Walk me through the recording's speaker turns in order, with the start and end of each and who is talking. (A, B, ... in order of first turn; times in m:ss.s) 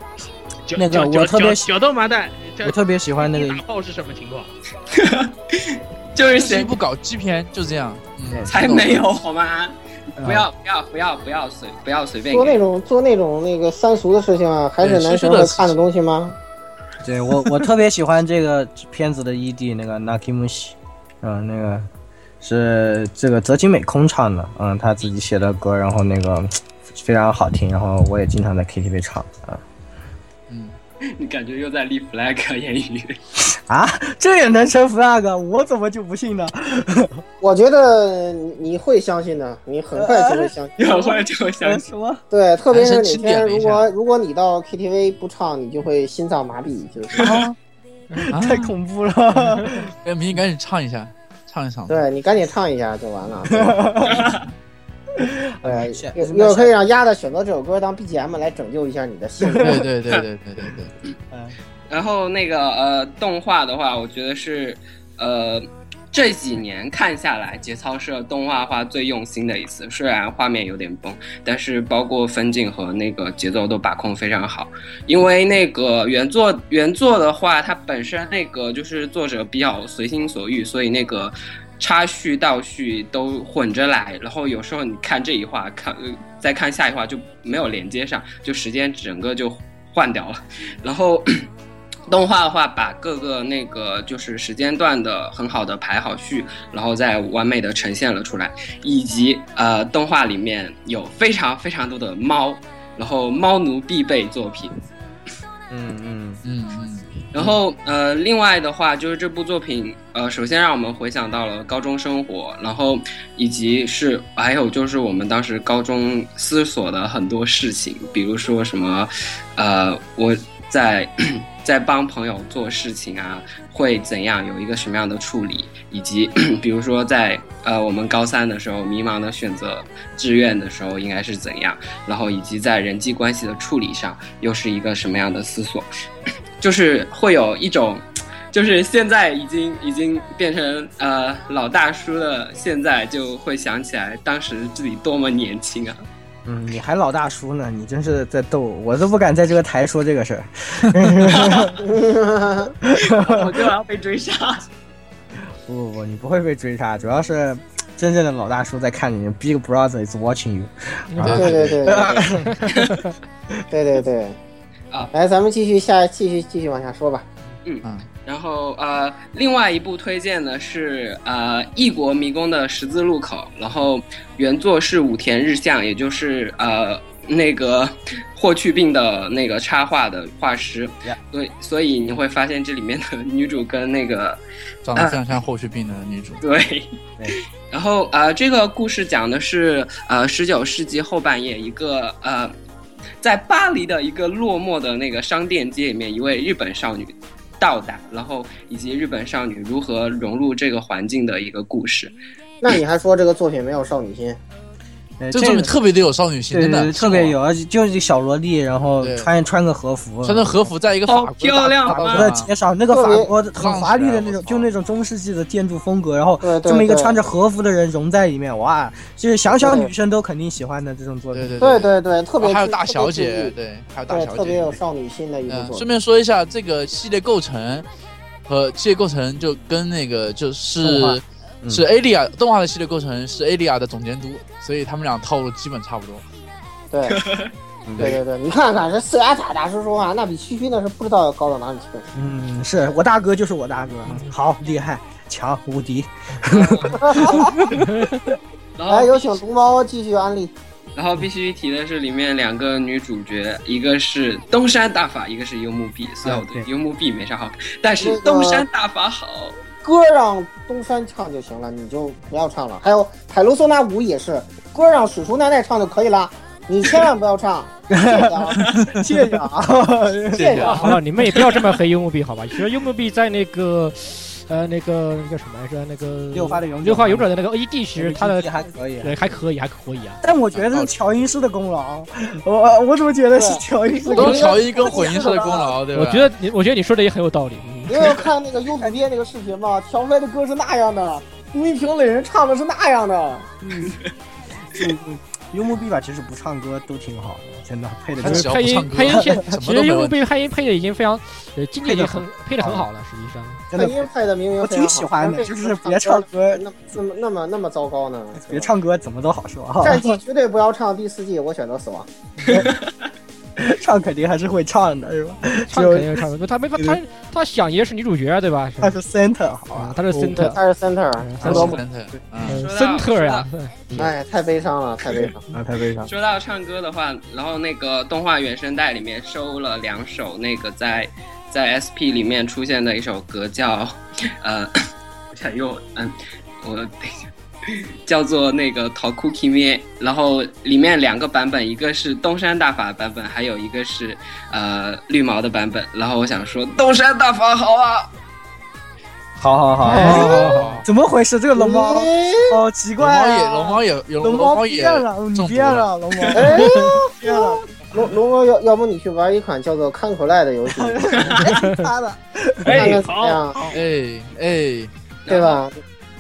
0:00.7-0:04.5 A
0:00.8-0:01.7 B
0:02.6-0:03.6 B
0:04.9-0:06.8 C
0:06.4-0:08.9 D
0:08.3-0:09.0 B
0:08.5-0:12.6 C
0:10.2-0:10.5 B
0:12.3-0:16.4 E
0:14.8-0:15.8 D
0:17.0-0:21.9 B
0:22.4-0:29.6 B
0:30.5-0:30.8 D
0:31.1-0:33.2 C
0:33.4-0:37.2 B
0:37.4-0:40.8 E
0:39.9-0:40.6 B
0:40.8-0:41.8 C
0:41.1-0:42.2 B
0:42.3-0:47.4 E
0:42.7-0:43.9 D
0:47.2-0:47.5 B
0:47.3-0:47.5 D
0:48.2-0:49.9 B
0:48.3-0:48.7 D
0:50.0-0:52.0 D
0:51.9-0:54.0 E
0:53.5-0:54.3 B
0:55.2-0:56.8 B
0:55.6-0:59.9 E
0:59.4-0:59.8 B
0:59.6-1:00.9 D
1:01.3-1:01.6 B
1:01.9-1:31.5 C
1:32.1-1:44.8 C
1:45.7-1:46.4 B
1:46.4-1:47.6 D
1:47.3-2:15.9 C
2:16.6-2:26.0 C
2:26.5-2:31.8 B
2:31.4-2:31.7 C
2:31.8-2:32.8 E
2:32.8-2:33.6 B
2:33.0-2:34.7 C
2:35.6-2:42.8 B
2:41.1-2:41.4 F
2:41.2-2:42.0 D
2:41.3-2:42.3 E
2:42.5-2:43.0 F
2:43.7-2:44.4 E
2:45.1-2:47.3 E
2:47.6-3:04.4 C
3:04.8-3:06.4 D
3:04.9-3:05.2 C
3:06.4-3:12.5 C
3:13.2-3:22.2 C
3:22.6-3:24.4 E
3:25.2-3:25.7 B
3:25.3-3:27.4 D
3:26.5-3:30.6 B
3:29.0-3:29.3 D
3:30.2-3:32.5 D
3:31.1-3:32.3 C
3:31.9-3:41.6 B
3:32.9-3:33.3 E
3:33.5-3:34.7 D
3:36.4-3:37.2 E
3:39.6-3:39.9 E
3:41.3-3:44.8 D
3:41.6-3:43.5 E
3:44.1-3:45.9 E
3:45.5-3:47.9 D
3:48.5-3:56.2 D
3:50.8-3:51.8 B
3:56.9-3:57.2 E
3:57.1-3:57.5 C
3:57.9-3:58.2 B
3:58.0-4:02.1 E
4:02.2-4:08.3 B
4:06.5-4:07.0 C
4:07.0-4:07.5 E
4:07.8-4:08.2 F
4:08.8-4:09.4 C
4:08.9-4:10.5 E
4:11.0-4:19.6 C
4:16.2-4:16.7 B
4:18.0-4:18.6 E
4:19.8-4:28.7 E
4:27.9-4:31.5 B
4:28.7-4:29.1 D
4:30.3-4:30.9 D
4:30.4-4:30.9 E
4:30.6-4:40.2 F
4:36.3-4:37.3 B
4:38.0-4:39.2 B
4:40.2-4:45.4 B
4:40.6-4:40.9 D
4:43.4-4:45.8 E
4:44.1-4:46.3 D
4:45.9-4:48.1 F
4:47.9-4:53.5 E
4:53.6-4:54.0 B
4:54.6-4:59.4 B
4:58.2-5:00.2 D
4:58.2-5:03.6 F
5:01.8-5:02.9 B
5:03.7-5:06.6 B
5:03.8-5:08.7 E
5:08.4-5:10.2 B
5:09.8-5:12.1 E
5:12.5-5:12.7 B
5:12.5-5:12.9 C
5:13.6-5:16.2 B
5:15.7-5:19.0 F
5:18.8-5:20.0 B
5:19.7-5:20.6 F
5:20.2-5:21.8 E
5:21.2-5:21.8 F
5:21.4-5:22.6 D
5:21.5-5:22.6 B
5:22.4-5:23.7 F
5:22.5-5:23.5 C
5:24.0-5:25.5 E
5:25.5-5:26.1 B
5:26.0-5:34.7 C
5:35.3-5:48.1 C
5:49.4-5:57.6 B
5:49.9-5:50.8 F
5:49.9-5:50.6 E
5:50.0-5:50.8 D
5:51.6-5:52.6 E
5:53.0-5:56.4 D
5:56.3-6:01.5 E
6:00.7-6:03.8 B
6:01.6-6:01.8 F
6:02.6-6:03.4 A
6:02.7-6:03.7 E
6:03.7-6:04.9 D
6:05.3-6:05.6 C
6:05.3-6:05.8 E